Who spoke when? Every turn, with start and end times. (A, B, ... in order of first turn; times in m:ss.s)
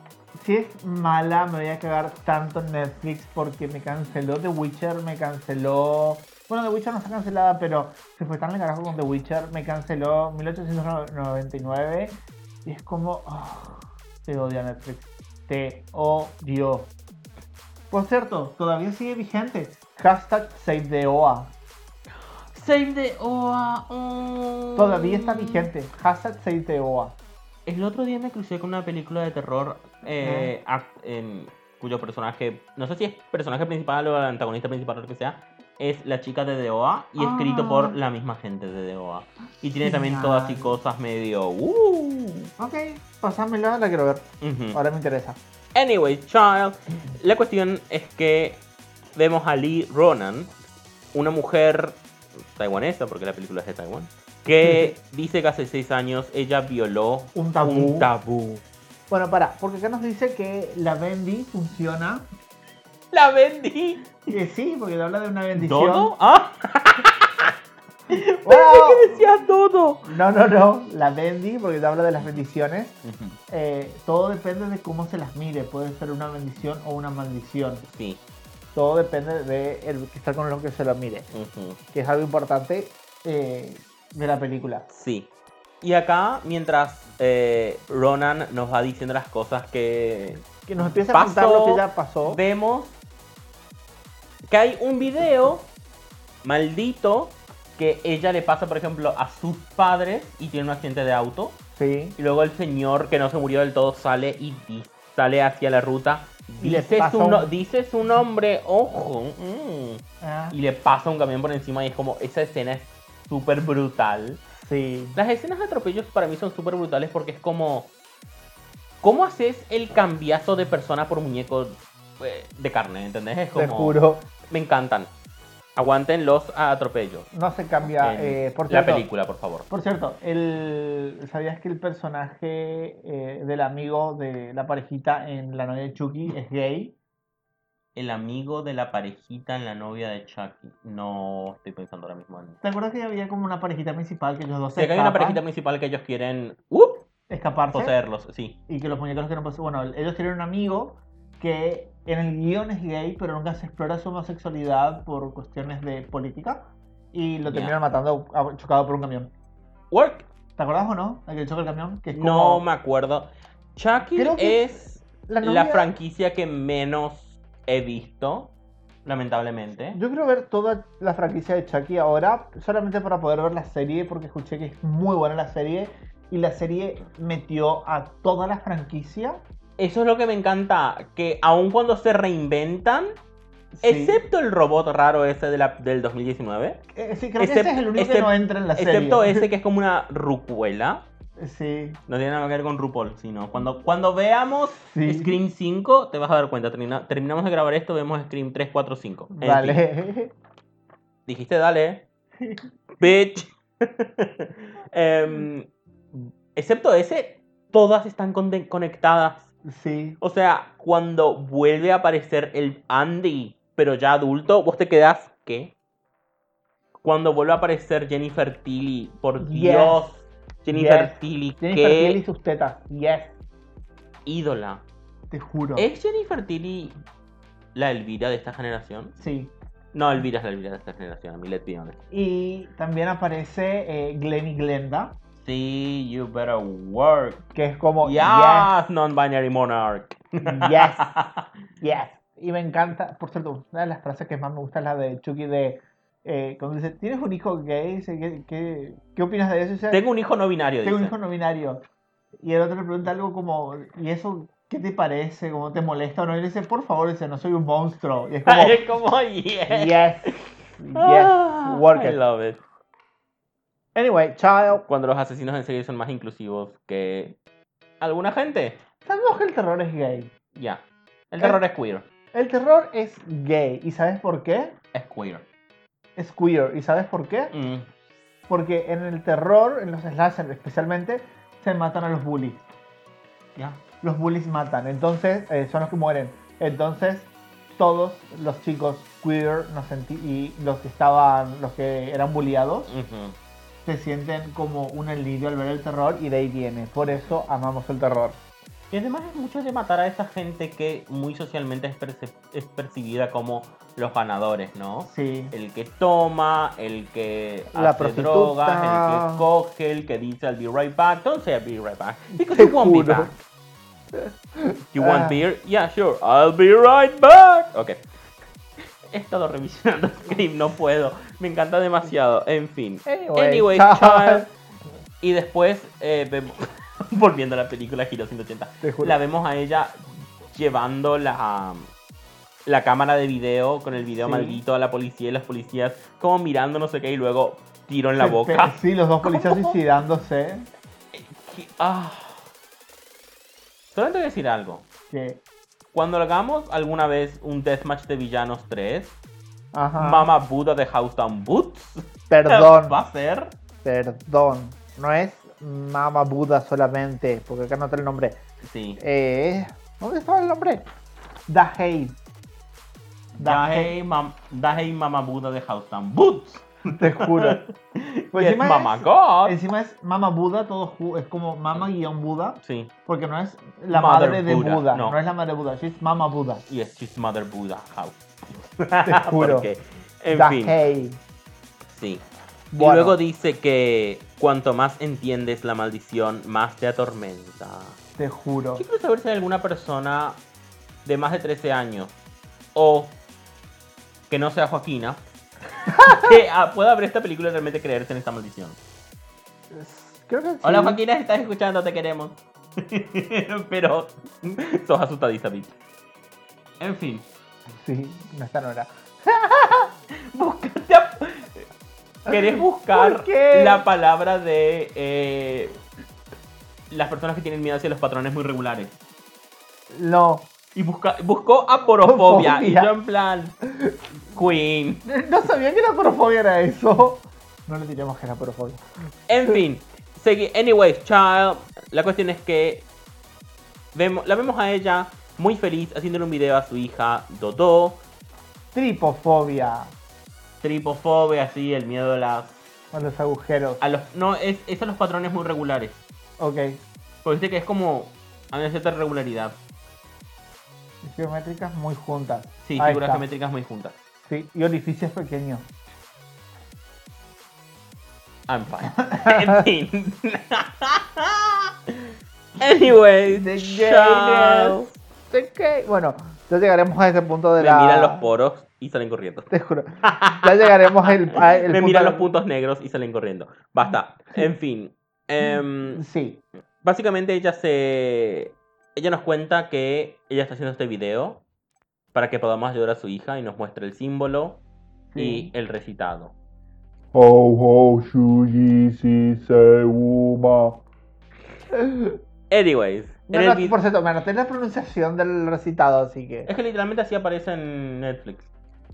0:00.4-0:16.9 A
0:17.9-0:21.5 A
0:22.5-0:25.7 B
0:24.8-0:27.1 A
0:27.6-0:42.5 B
0:30.2-0:30.5 A
0:37.2-0:38.0 A
0:39.8-0:40.8 A
0:42.6-0:45.4 A
0:44.4-0:44.8 B
0:45.8-0:48.6 B
0:49.1-0:50.5 B
0:51.1-0:52.0 B
0:52.5-0:58.6 B
0:54.6-0:54.9 A
0:57.3-0:58.1 A
0:59.1-1:02.3 A
1:03.1-1:04.3 B
1:04.3-1:06.1 A
1:05.5-1:07.5 B
1:08.1-1:10.1 B
1:08.4-1:09.2 A
1:10.0-1:13.0 A
1:13.0-1:13.4 B
1:13.5-1:17.9 A
1:17.9-1:18.2 B
1:18.7-1:21.3 A
1:21.3-1:21.8 B
1:21.9-1:24.9 A
1:24.9-1:25.3 B
1:25.8-1:30.4 B
1:30.6-1:32.4 A
1:31.1-1:33.0 B
1:34.5-1:35.7 B
1:36.4-1:41.6 B
1:41.8-1:42.2 A
1:42.2-1:54.4 B
1:46.6-1:47.5 A
1:50.2-1:50.6 A
1:54.5-1:55.2 A
1:55.2-1:57.9 B
1:59.0-2:04.0 B
2:03.5-2:04.2 A
2:04.5-2:05.1 B
2:05.8-2:07.3 B
2:07.3-2:09.1 A
2:07.8-2:09.7 B
2:09.7-2:16.9 A
2:18.0-2:22.6 B
2:22.6-2:25.4 A
2:24.8-2:27.0 B
2:27.3-2:27.9 A
2:27.7-2:28.6 B
2:28.7-2:39.3 A
2:37.4-2:37.7 B
2:39.9-2:40.3 B
2:40.6-2:42.6 A
2:42.1-2:48.5 B
2:44.1-2:45.9 A
2:49.0-2:50.0 B
2:49.9-2:59.4 A
2:59.8-3:03.2 B
3:03.7-3:04.2 A
3:03.8-3:06.8 B
3:06.9-3:09.5 A
3:07.4-3:11.0 B
3:11.4-3:12.0 A
3:12.1-3:19.8 B
3:14.8-3:15.4 A
3:19.4-3:20.3 A
3:21.3-3:22.0 B
3:23.0-3:25.7 B
3:26.5-3:29.5 B
3:29.6-3:30.2 A
3:30.2-3:35.7 B
3:37.0-3:42.2 B
3:39.4-3:40.1 A
3:40.7-3:43.4 A
3:44.2-3:44.8 B
3:45.3-3:45.9 A
3:45.8-3:47.0 B
3:47.8-3:49.1 B
3:49.2-3:49.5 A
3:49.9-3:52.0 B
3:52.1-3:55.2 A
3:55.4-3:57.5 B
3:57.5-3:58.7 A
3:58.0-4:01.4 B
4:00.4-4:01.1 A
4:01.8-4:10.0 A
4:09.9-4:11.1 B
4:10.8-4:11.8 A
4:12.4-4:18.8 A
4:18.4-4:20.0 B
4:19.7-4:22.2 A
4:20.9-4:22.6 B
4:23.9-4:24.8 A
4:24.9-4:27.4 B
4:28.0-4:28.8 B
4:29.0-4:30.3 A
4:30.5-4:32.1 B
4:32.3-4:34.8 A
4:34.9-4:35.4 B
4:36.2-4:37.5 A
4:37.5-4:37.9 B
4:38.5-4:42.6 A
4:43.6-4:43.8 B
4:44.0-4:52.9 A
4:52.9-4:53.4 B
4:53.8-4:58.4 A
4:57.1-4:57.4 B
4:58.9-5:13.4 B
5:05.0-5:05.5 A
5:07.7-5:09.4 A
5:12.4-5:13.3 A
5:14.2-5:15.4 A
5:14.9-5:18.0 B
5:18.8-5:24.5 B
5:23.0-5:24.5 A
5:25.2-5:31.9 B
5:28.8-5:29.2 A
5:32.6-5:39.8 B
5:34.2-5:34.6 A
5:38.2-5:40.7 A
5:41.1-5:42.5 B
5:43.9-5:44.8 B
5:45.1-5:45.4 A
5:45.9-5:49.2 B
5:49.7-5:50.3 A
5:50.0-5:53.5 B
5:52.3-5:53.0 A
5:53.8-5:58.4 A
5:58.6-5:59.0 B
5:59.0-6:00.8 A
6:01.5-6:02.2 A
6:03.4-6:03.9 A
6:03.4-6:09.6 B
6:06.9-6:07.6 A
6:08.3-6:16.6 A
6:12.6-6:12.9 B
6:13.9-6:15.2 B
6:16.7-6:20.7 B
6:19.0-6:19.7 A
6:20.3-6:21.2 A
6:21.9-6:22.2 B
6:22.7-6:23.2 A
6:22.8-6:28.0 B
6:28.2-6:28.8 A
6:28.8-6:30.4 B
6:31.0-6:32.1 B
6:32.8-6:33.2 B
6:34.3-6:35.2 B
6:35.9-6:36.4 A
6:35.9-6:38.8 B
6:39.7-6:41.0 A
6:40.6-6:45.7 B
6:46.8-6:47.2 B
6:47.8-6:49.9 A
6:50.3-6:51.7 B
6:52.2-6:55.8 B
6:52.3-6:53.8 A
6:56.9-6:59.0 B
6:59.9-7:00.5 A
7:00.8-7:03.6 B
7:02.0-7:02.9 A
7:03.7-7:04.0 A
7:04.3-7:05.0 B
7:05.0-7:08.8 A
7:09.3-7:12.9 B
7:13.9-7:18.0 B
7:18.7-7:19.9 A
7:20.6-7:22.6 B
7:22.9-7:23.8 A
7:23.8-7:26.0 B
7:26.4-7:26.8 A
7:27.2-7:29.6 B
7:31.0-7:33.2 A
7:32.6-7:34.0 B
7:34.3-7:35.7 A
7:38.5-7:44.9 B
7:39.0-7:39.6 A
7:43.3-7:48.3 A
7:47.6-7:49.5 B
7:49.5-7:52.3 A
7:50.0-7:56.0 B
7:55.9-7:56.4 A
7:56.8-8:01.4 B
8:02.1-8:04.6 B
8:05.1-8:05.5 A
8:05.2-8:06.3 B
8:07.1-8:10.8 C
8:11.8-8:12.1 A
8:12.5-8:13.8 B
8:13.3-8:16.5 A
8:16.4-8:18.5 B